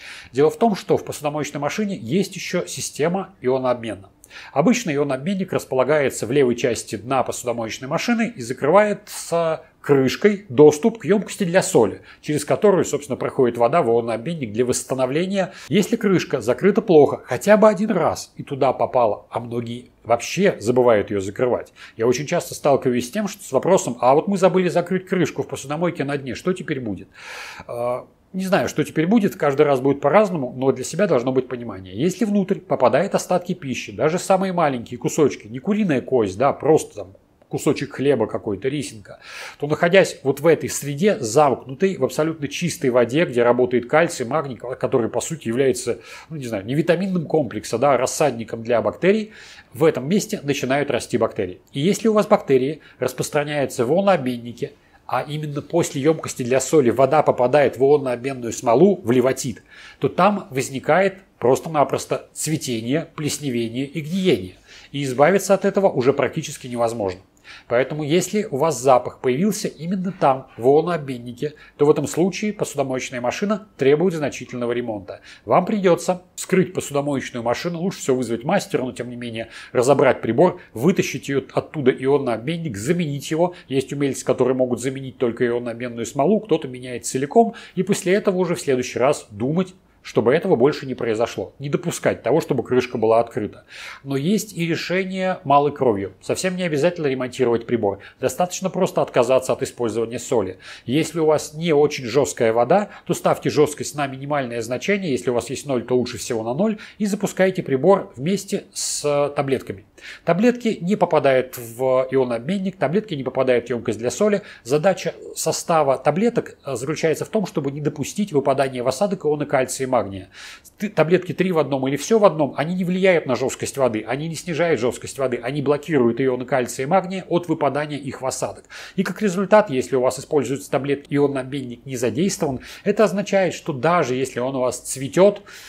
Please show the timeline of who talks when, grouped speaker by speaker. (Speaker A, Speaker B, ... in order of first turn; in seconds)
Speaker A: 0.3-27.1, 27.7-135.4